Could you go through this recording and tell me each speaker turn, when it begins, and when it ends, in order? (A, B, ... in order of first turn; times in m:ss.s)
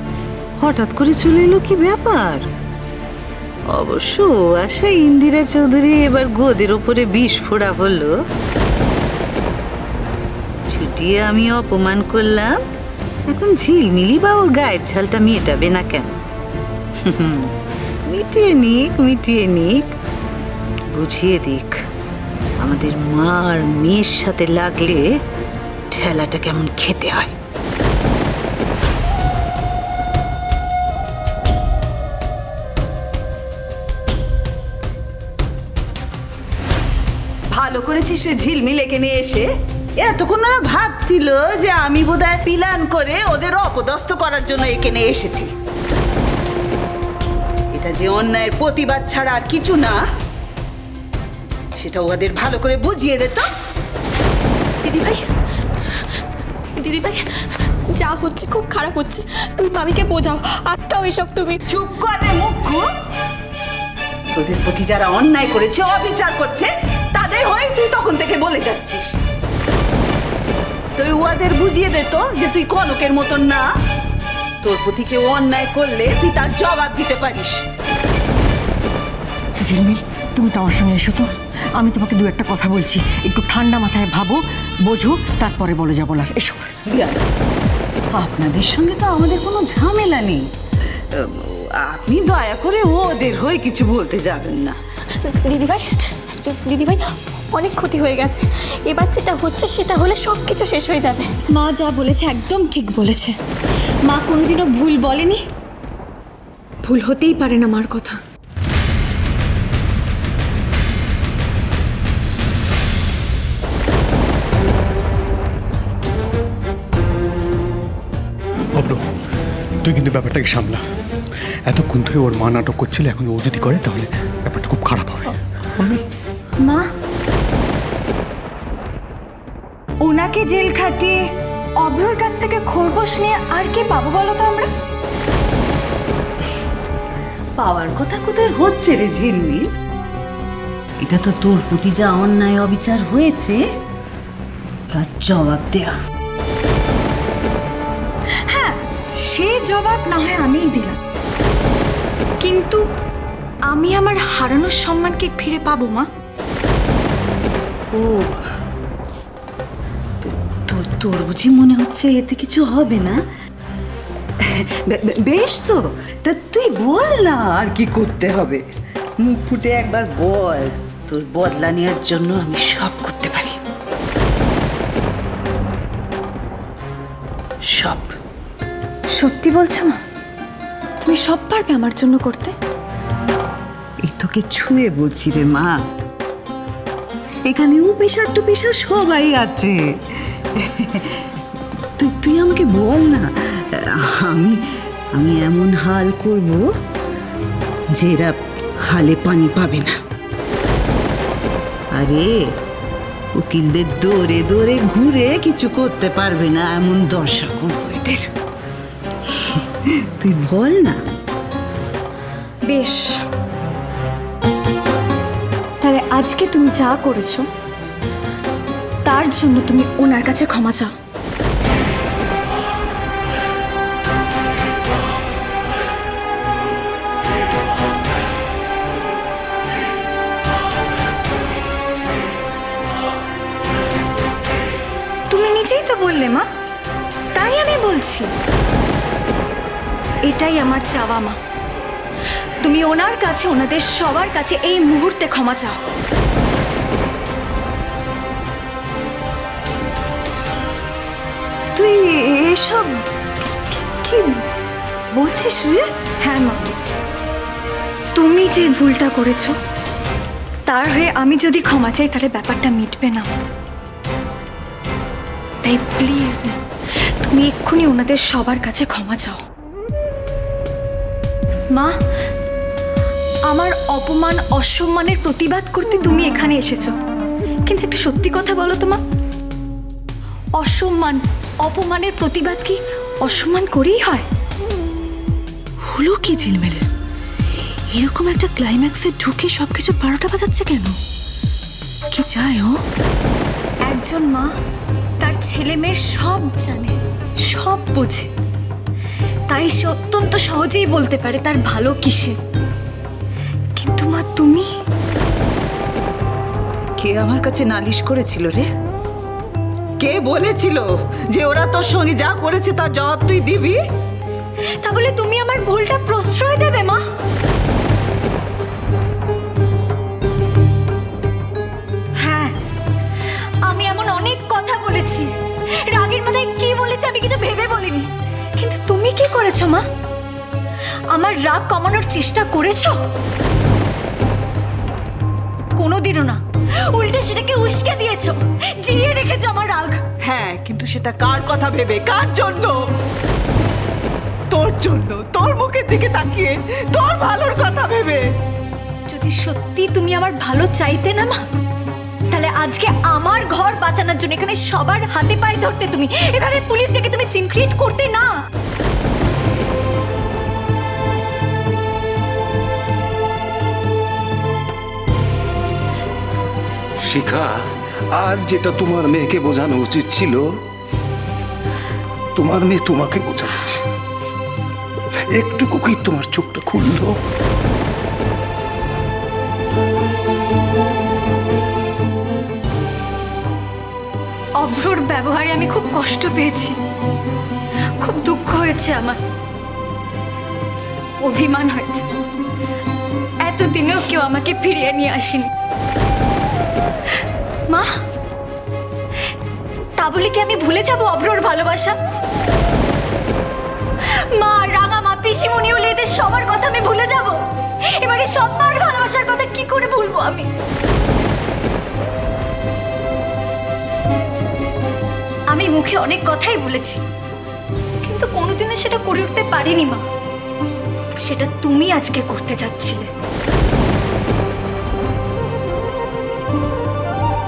0:00.6-0:02.4 A
0:03.7-0:08.2 A
0:10.7-0:12.6 A
0:13.3-0:16.2 A
0:17.1-0:17.5 A
0:18.1-0:19.9 A
0:20.9-0:21.8 A
0:22.6-0:25.0 A
0:25.9-0:27.3 A
0:37.5-0:39.5 A
0:40.0-0:45.5 A
0:47.7-0:50.0 A
0:51.8-0:53.5 A
0:54.8-0:55.3 B
0:56.8-0:57.2 B
0:57.9-1:01.6 B
1:01.7-1:02.8 A
1:04.3-1:09.2 A
1:11.0-1:13.6 A
1:14.6-1:17.6 A
1:19.6-1:26.7 C
1:26.9-1:27.2 A
1:28.1-1:30.4 A
1:31.2-1:34.8 A
1:35.2-1:41.4 B
1:41.5-1:43.4 D
1:44.0-1:45.4 D
1:46.8-1:48.2 D
1:59.8-2:00.8 E
2:01.7-2:06.0 E
2:06.6-2:06.9 D
2:10.0-2:11.2 D
2:11.8-2:14.7 D
2:17.6-2:19.7 A
2:21.0-2:23.6 A
2:24.9-2:25.9 A
2:28.5-2:31.0 D
2:32.4-2:32.8 D
2:33.7-2:36.1 D
2:37.9-2:38.4 A
2:40.2-2:43.2 A
2:44.5-2:48.6 A
2:49.2-2:53.6 A
2:57.7-2:58.1 A
2:59.1-3:00.0 D
3:01.0-3:02.6 D
3:04.0-3:05.8 A
3:07.5-3:09.8 A
3:10.4-3:11.2 A
3:12.0-3:13.3 A
3:14.0-3:14.6 A
3:15.1-3:16.7 A
3:17.9-3:19.9 A
3:21.9-3:22.4 A
3:23.4-3:28.3 A
3:30.2-3:31.0 A
3:32.7-3:33.2 D
3:35.8-3:37.5 D
3:39.0-3:40.9 D
3:55.3-3:56.5 D
3:57.4-3:58.3 D
4:00.2-4:01.4 D
4:02.6-4:05.8 D
4:11.8-4:12.9 A
4:14.0-4:14.4 A
4:15.2-4:15.8 A
4:16.2-4:16.7 D
4:18.2-4:19.6 D
4:20.7-4:23.3 D
4:25.6-4:29.4 D
4:33.5-4:36.9 D
4:37.7-4:39.0 D
4:40.6-4:44.2 D
4:46.0-4:46.8 F
4:48.0-4:50.9 F
4:52.1-4:52.7 F
4:53.9-4:54.5 D
4:55.2-4:58.3 D
4:59.5-5:02.4 D
5:03.8-5:04.7 D
5:07.0-5:08.7 A
5:10.0-5:13.8 A
5:14.8-5:17.0 D
5:22.2-5:22.6 D
5:23.6-5:25.3 D
5:25.8-5:29.8 D
5:31.1-5:33.0 D
5:35.8-5:40.0 D
5:40.3-5:42.7 A
5:44.5-5:48.2 A
5:49.1-5:51.4 D
5:52.3-5:58.3 D
6:07.1-6:07.6 G
6:08.2-6:10.5 G
6:12.4-6:13.8 G
6:15.4-6:17.2 G
6:24.6-6:26.8 D
6:28.0-6:29.2 D
6:31.2-6:32.1 D
6:33.4-6:35.5 D
6:40.0-6:42.0 D
6:44.0-6:47.4 D
6:47.9-6:50.5 D
6:55.5-6:57.0 D
6:58.0-7:00.0 D
7:01.2-7:03.1 D